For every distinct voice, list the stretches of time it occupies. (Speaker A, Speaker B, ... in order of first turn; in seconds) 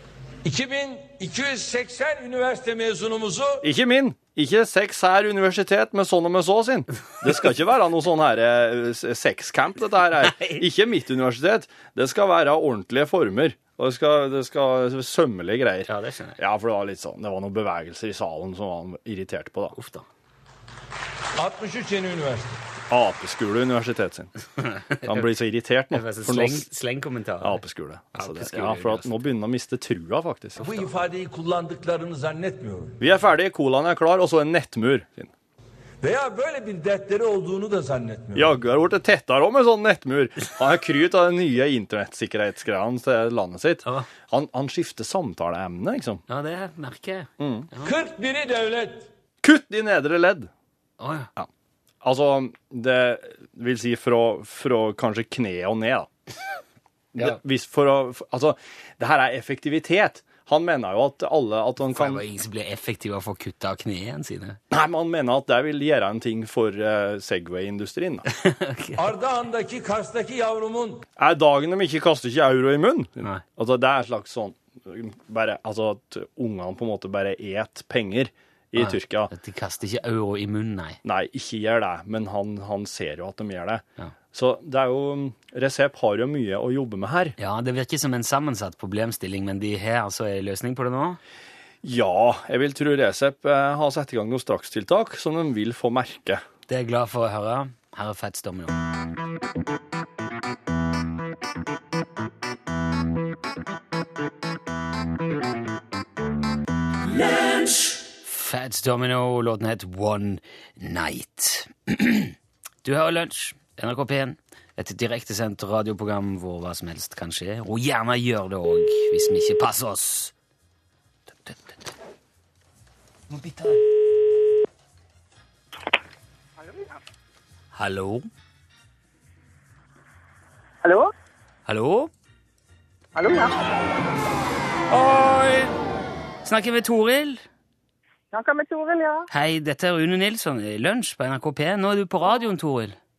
Speaker A: 0.4-3.6, 21.4-22.6, 30.6-33.0, 36.0-38.5, 47.8-49.1, 69.0-71.0
Speaker B: 3.6-19.8, 22.9-24.3, 25.0-26.7, 27.4-30.8, 33.0-35.3, 38.4-46.2, 47.4-47.7, 49.4-50.5, 52.0-56.1, 57.1-62.2, 64.7-68.2, 71.2-79.3, 81.0-87.3, 91.8-96.4
Speaker C: 10.2-10.6, 15.9-16.4, 19.7-20.1, 24.6-25.3, 25.9-27.6, 28.1-29.1, 46.3-47.9, 51.0-51.3, 61.9-64.6, 68.3-69.0, 78.8-81.0, 87.4-91.2, 96.7-98.8, 108.2-120.3, 121.5-121.7, 123.3-123.8, 127.7-128.3, 131.7-132.1, 134.9-135.7, 136.4-137.4, 139.3-143.0
Speaker D: 126.6-127.0, 130.8-131.1, 133.2-133.7, 138.3-139.3